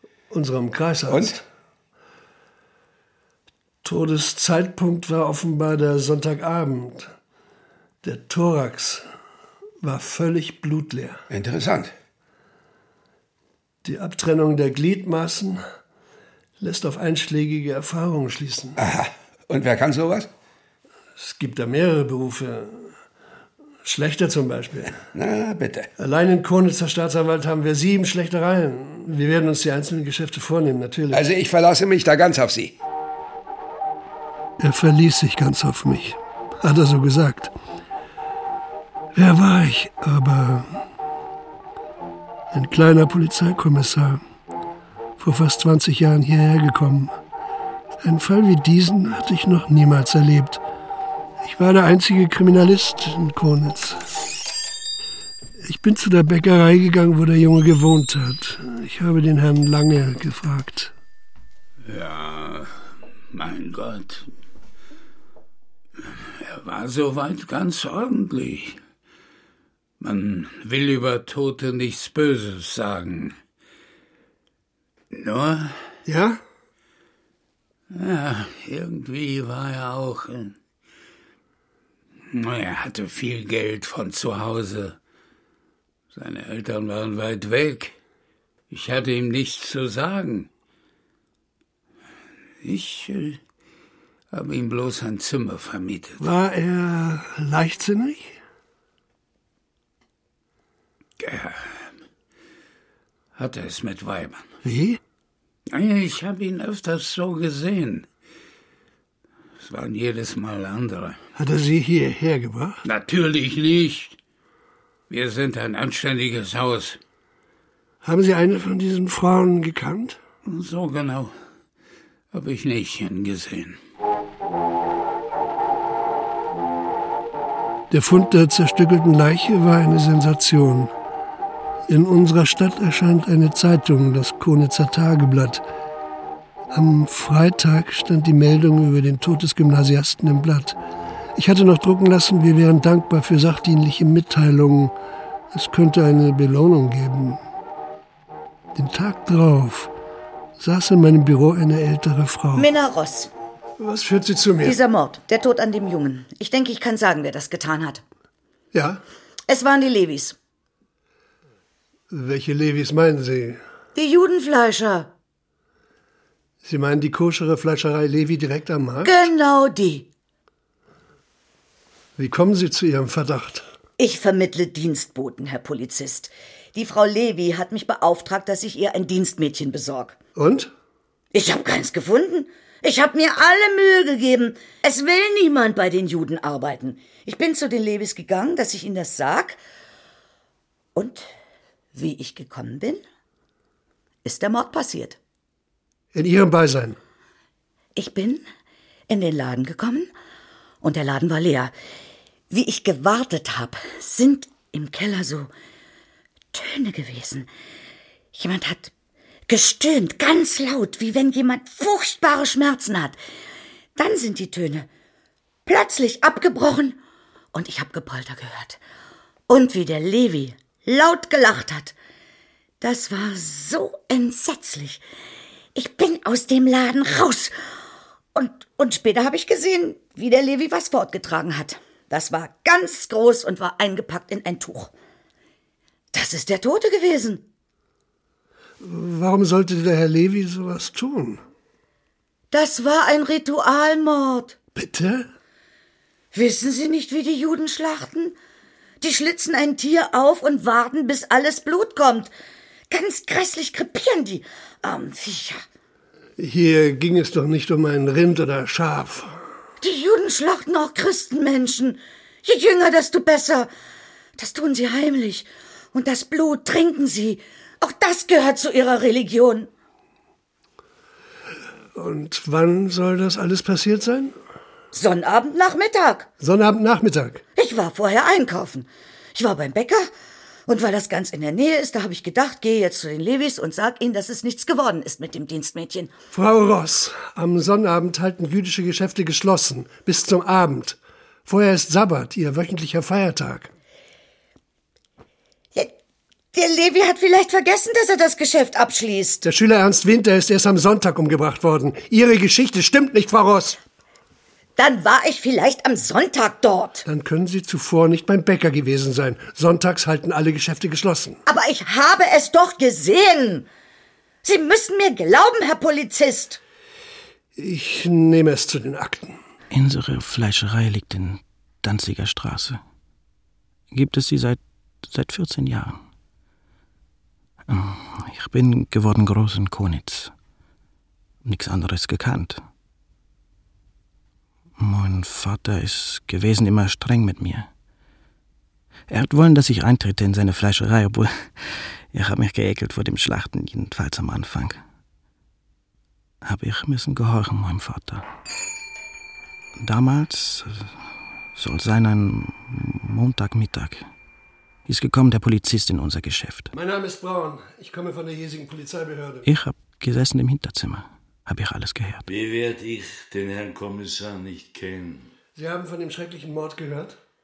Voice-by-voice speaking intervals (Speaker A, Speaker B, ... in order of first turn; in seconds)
Speaker A: 0.3-1.4, 3.8-7.1, 8.0-9.1, 9.8-11.2, 13.8-15.6, 16.6-18.8, 21.2-22.9, 23.8-25.0, 26.0-31.3, 34.6-37.5, 39.1-40.8, 42.5-44.2, 45.2-47.1, 48.0-50.6, 51.4-54.0, 55.6-60.9, 76.0-76.4, 96.2-98.4, 104.6-105.0, 111.4-112.8, 118.0-120.2, 127.9-130.9, 131.9-135.6, 136.7-140.8, 141.4-144.9, 145.5-147.4, 148.8-149.9, 150.6-152.7, 153.8-154.8, 158.7-159.0, 162.1-163.6, 166.6-169.3, 172.2-173.7, 180.4-180.7, 196.1-197.0, 238.8-241.4, 244.8-245.3, 256.4-259.4, 271.9-274.4, 276.4-277.4, 286.3-293.7, 299.4-303.8, 307.1-311.4, 317.6-319.4, 356.7-359.5, 365.6-367.2
Speaker B: 1.1-1.4, 11.3-11.9, 18.8-20.3, 25.1-25.9, 31.1-32.7
Speaker C: 61.8-64.3, 66.0-68.8, 70.0-73.4, 75.1-75.9, 77.9-80.6, 82.3-85.0, 86.1-88.0, 88.7-90.5, 92.6-93.4, 94.3-96.2, 101.2-102.0, 103.3-104.5, 105.7-108.1, 109.6-111.2, 112.8-114.2, 115.1-117.0, 120.4-121.4, 122.3-123.8
Speaker D: 152.6-153.3, 154.6-158.0, 159.5-160.4, 163.9-165.1, 169.0-170.1, 174.0-180.2, 181.3-189.6, 190.9-191.3, 191.9-193.0, 194.2-195.2, 197.9-198.4, 199.1-200.1, 200.8-201.7, 202.5-205.5, 206.5-207.5, 208.3-208.9, 209.5-213.2, 214.0-214.9, 215.7-217.0, 217.5-218.8, 219.5-221.9, 222.8-225.0, 225.8-227.5, 228.3-234.9, 236.1-237.4, 242.5-244.6, 246.3-248.4, 249.0-252.3, 252.9-255.6, 259.8-263.7, 264.4-269.7, 274.9-276.3, 277.6-280.1, 280.7-286.1, 296.5-299.4, 304.8-307.1, 311.5-313.7, 314.4-316.6
Speaker E: 319.7-322.8, 323.9-326.0, 327.7-330.3, 331.4-332.6, 334.8-337.7, 339.1-344.8, 346.4-348.2, 349.8-350.9, 351.6-354.1, 354.9-356.7, 359.4-362.3
Speaker F: 362.3-365.3